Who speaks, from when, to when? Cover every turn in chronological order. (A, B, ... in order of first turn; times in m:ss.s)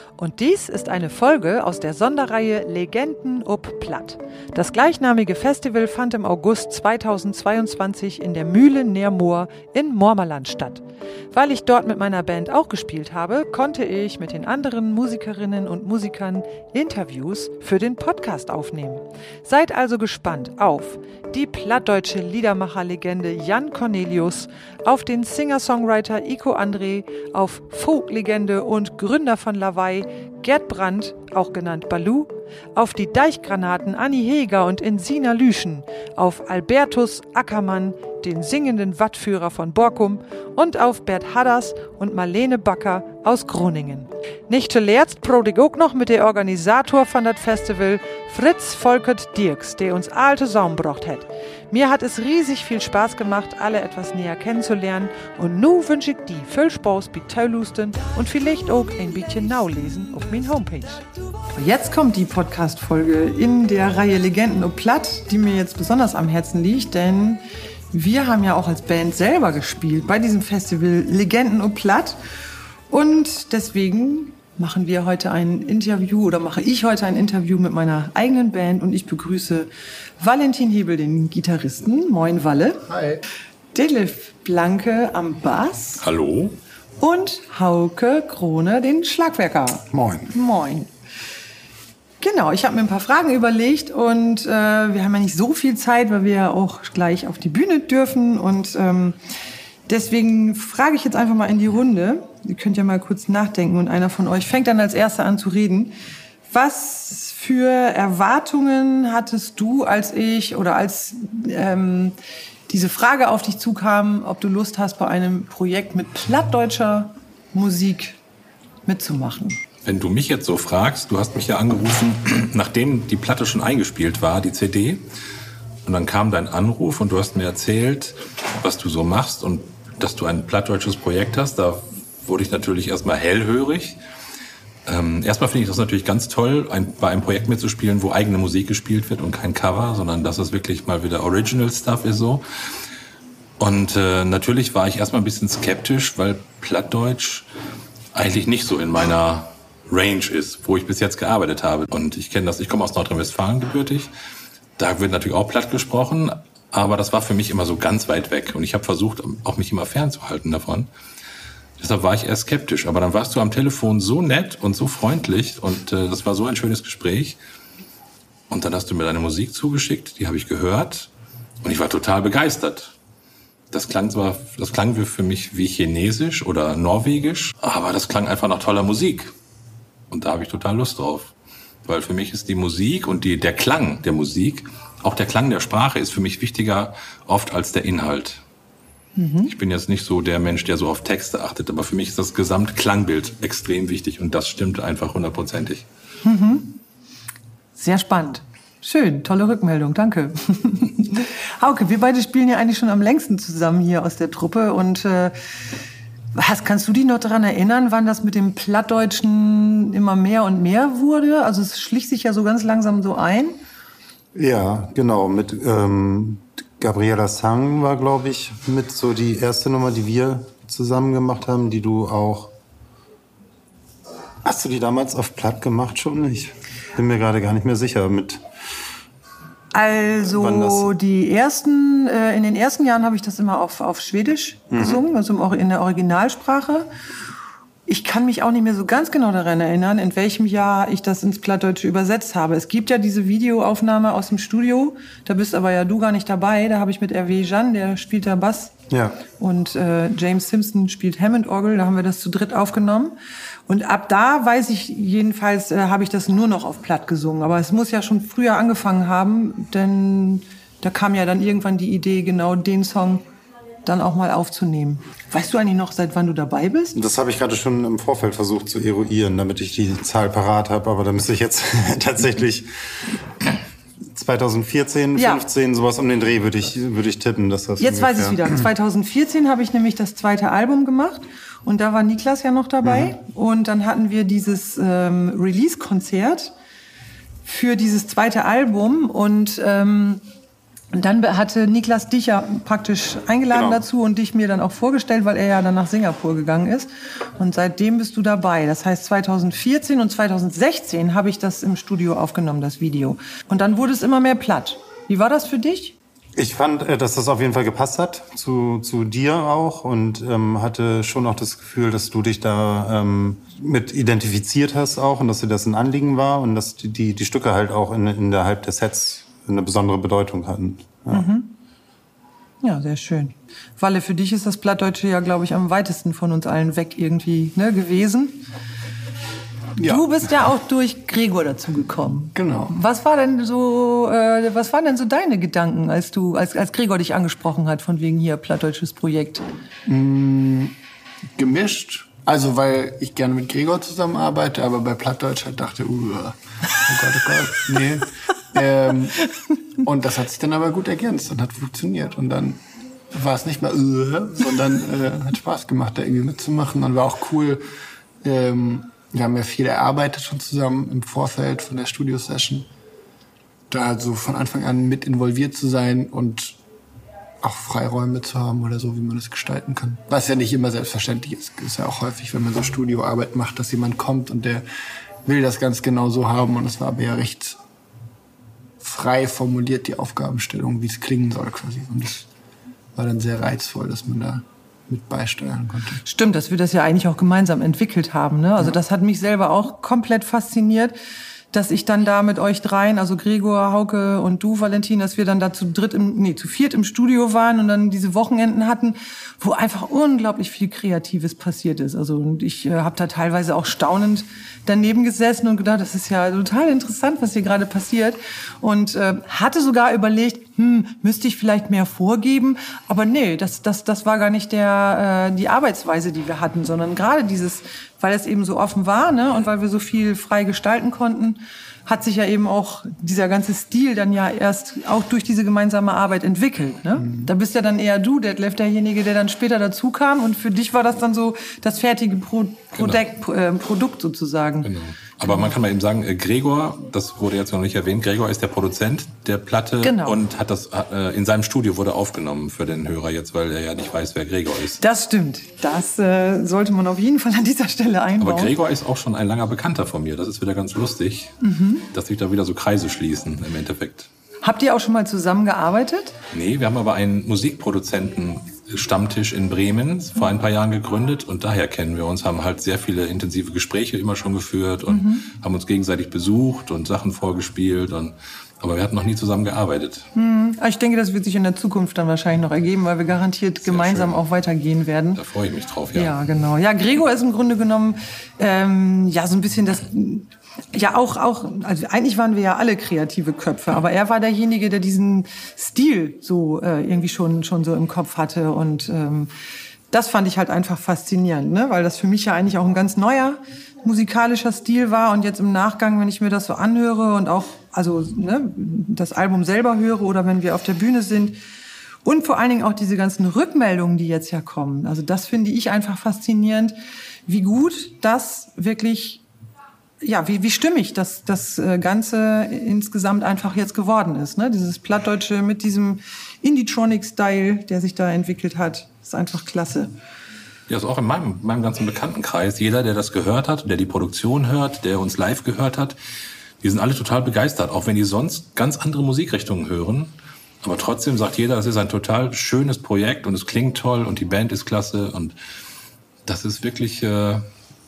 0:00.2-1:12.2 A
1:12.9-1:22.8 A
1:22.9-1:23.2 B
1:23.7-1:26.0 A
1:26.0-1:26.6 C
1:27.0-1:30.9 A
1:29.9-1:30.3 D
1:32.2-1:39.2 A
1:39.9-1:45.9 A
1:46.5-1:52.2 A
1:52.7-1:58.2 A
1:58.8-1:59.6 A
1:59.8-2:05.0 C
2:05.8-2:14.0 C
2:14.9-2:22.4 C
2:23.6-2:27.5 C
2:28.1-2:34.1 C
2:34.8-2:40.9 C
2:41.8-2:47.4 C
2:48.5-2:51.1 C
2:51.6-2:52.9 C
2:53.7-2:59.3 C
3:00.1-3:01.3 C
3:01.8-3:08.4 C
3:09.2-3:09.5 A
3:09.5-3:15.8 C
3:16.2-3:16.8 A
3:17.8-3:25.3 A
3:26.3-3:33.6 A
3:34.3-3:42.5 D
3:44.4-3:48.4 D
3:49.7-3:56.9 A
3:50.3-3:50.9 D
3:54.7-3:55.0 D
3:57.9-4:08.7 A
4:08.9-4:09.2 D
4:09.4-4:13.1 A
4:13.7-4:23.2 A
4:23.8-4:27.0 A
4:26.9-4:32.7 D
4:34.1-4:38.5 D
4:35.1-4:35.4 A
4:37.8-4:46.5 A
4:47.4-4:50.2 A
4:50.9-5:06.0 A
4:53.5-4:53.8 D
5:06.4-5:21.3 D
5:21.1-5:21.5 A
5:22.6-5:28.4 A
5:29.8-5:30.0 B
5:29.8-5:39.4 A
5:32.3-5:32.7 B
5:39.8-5:40.7 B
5:41.4-5:49.2 B
5:49.8-5:52.6 B
5:53.1-5:57.6 B
5:58.2-6:02.7 B
6:03.7-6:06.6 B
6:07.4-6:14.6 B
6:15.2-6:17.6 B
6:18.8-6:22.3 B
6:23.0-6:26.0 B
6:26.0-6:31.0 A
6:31.5-7:14.7 A
7:07.0-7:07.3 B
7:12.7-7:13.0 C
7:14.6-7:24.8 C
7:15.2-7:15.5 A
7:19.8-7:20.2 A
7:24.8-7:28.5 A
7:28.2-7:31.3 C
7:31.4-7:31.9 A
7:31.9-7:34.1 C
7:34.4-7:36.1 A
7:36.3-7:50.0 C
7:44.9-7:45.3 A
7:50.1-7:55.2 A
7:53.6-7:54.2 C
7:55.2-7:56.1 C
7:55.9-8:09.3 A
8:09.9-8:21.4 A
8:22.0-8:26.7 A
8:27.2-8:29.2 A
8:30.0-8:39.9 A
8:40.7-8:46.0 C
8:46.6-8:55.4 C
8:56.2-8:57.4 C